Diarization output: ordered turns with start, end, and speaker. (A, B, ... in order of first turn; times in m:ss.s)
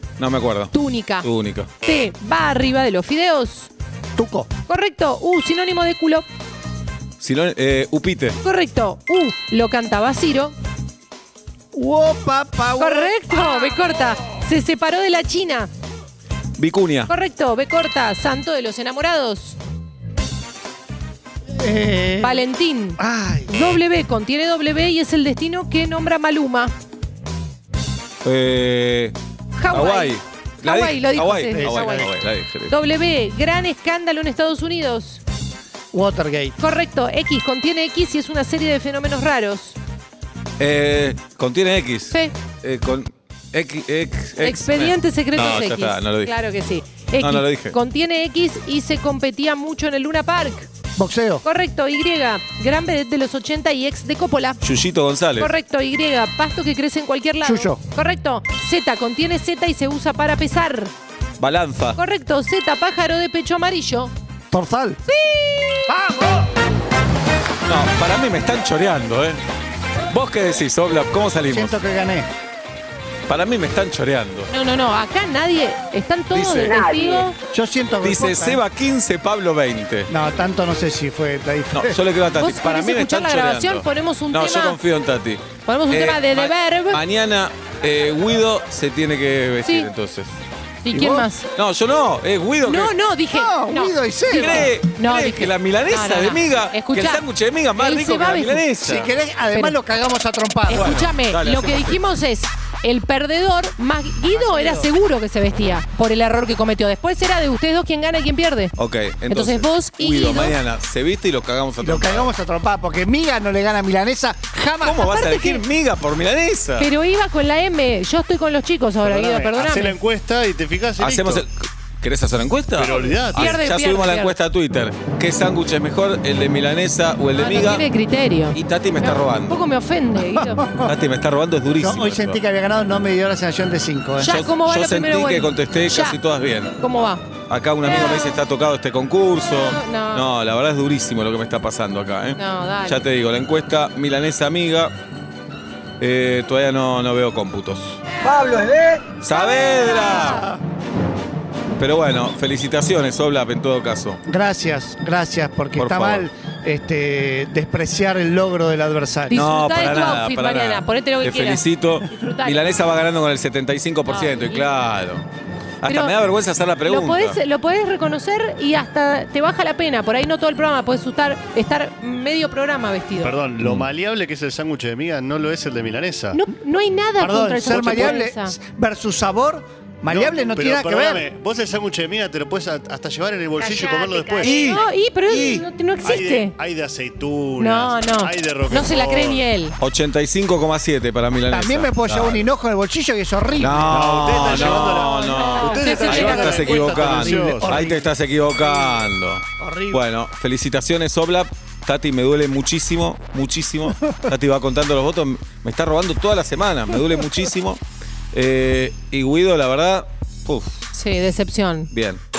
0:00.2-0:01.7 A
0:00.7-0:01.3 B
0:01.8-0:03.7 B
0:04.2-0:04.5 C
0:04.7-0:06.3 B
0:07.2-0:08.4 A
0:08.4-0:10.6 B
0:11.7-0:13.6 C
0:12.8-0:15.7 B
0:16.6-0:17.1 A
0:17.1-0:19.6 B
0:21.5-0:22.5 C
0:22.2-0:26.7 B
0:23.0-0:23.6 C
0:28.2-0:29.2 A
0:29.6-0:32.1 B
0:29.7-0:32.7 A
0:31.5-0:32.1 C
0:32.7-0:35.2 B
0:35.9-0:36.6 C
0:36.6-0:39.8 B
0:40.6-0:46.3 A
0:42.1-0:42.4 B
0:44.4-0:50.7 B
0:47.2-0:47.8 A
0:51.0-0:51.4 C
0:51.4-0:54.6 B
0:54.6-0:55.5 A
0:55.4-1:00.9 B
0:57.4-0:57.8 C
1:01.4-1:02.0 A
1:02.0-1:04.1 B
1:04.5-1:05.0 C
1:05.1-1:05.9 B
1:05.9-1:06.5 C
1:07.7-1:09.4 A
1:10.1-1:11.8 A
1:11.5-1:12.3 C
1:13.3-1:14.5 A
1:14.5-1:17.4 B
1:16.3-1:17.2 A
1:17.5-1:18.6 C
1:18.0-1:20.1 A
1:20.1-1:22.0 C
1:21.8-1:30.4 A
1:22.4-1:24.8 B
1:25.6-1:27.0 B
1:29.6-1:29.9 B
1:30.8-1:31.5 B
1:30.9-1:31.3 C
1:31.6-1:32.9 A
1:32.6-1:38.6 B
1:33.3-1:34.8 C
1:34.3-1:39.1 A
1:38.8-1:41.1 C
1:39.5-1:39.8 B
1:40.7-1:48.8 B
1:40.7-1:42.0 A
1:44.3-1:44.9 C
1:48.8-1:52.3 A
1:49.3-1:50.6 B
1:51.8-1:55.0 C
1:54.8-1:56.9 A
1:54.9-1:55.6 B
1:56.8-2:00.0 B
1:59.0-2:01.4 D
2:01.0-2:07.8 A
2:02.8-2:03.6 D
2:03.3-2:04.4 B
2:07.4-2:10.6 B
2:08.5-2:09.6 A
2:10.2-2:11.0 C
2:10.8-2:12.4 A
2:11.8-2:14.4 C
2:14.2-2:16.2 B
2:14.3-2:16.7 A
2:16.8-2:17.2 B
2:17.5-2:25.0 A
2:17.9-2:18.4 B
2:19.5-2:20.3 B
2:22.4-2:23.0 B
2:26.0-2:28.0 A
2:28.2-2:29.0 C
2:29.2-2:30.5 A
2:29.3-2:30.6 B
2:30.2-2:30.6 C
2:31.8-2:34.2 A
2:34.3-2:39.5 C
2:35.8-2:36.3 A
2:39.3-2:42.7 B
2:39.3-2:45.3 A
2:44.1-2:44.7 B
2:45.8-2:47.4 A
2:45.8-2:46.2 B
2:46.8-2:53.4 B
2:53.2-2:56.4 D
2:53.6-2:53.9 A
2:56.3-2:58.6 B
2:57.2-3:01.3 C
3:00.1-3:04.8 D
3:03.6-3:06.6 B
3:04.4-3:04.8 A
3:05.3-3:05.6 C
3:06.0-3:09.5 D
3:07.6-3:09.8 B
3:09.8-3:12.5 A
3:11.5-3:14.8 C
3:13.6-3:27.8 A
3:13.8-3:17.8 D
3:15.2-3:17.4 B
3:17.5-3:18.1 C
3:18.6-3:19.0 C
3:19.6-3:20.0 C
3:28.3-3:30.9 A
3:30.9-3:31.9 B
3:31.9-3:32.2 A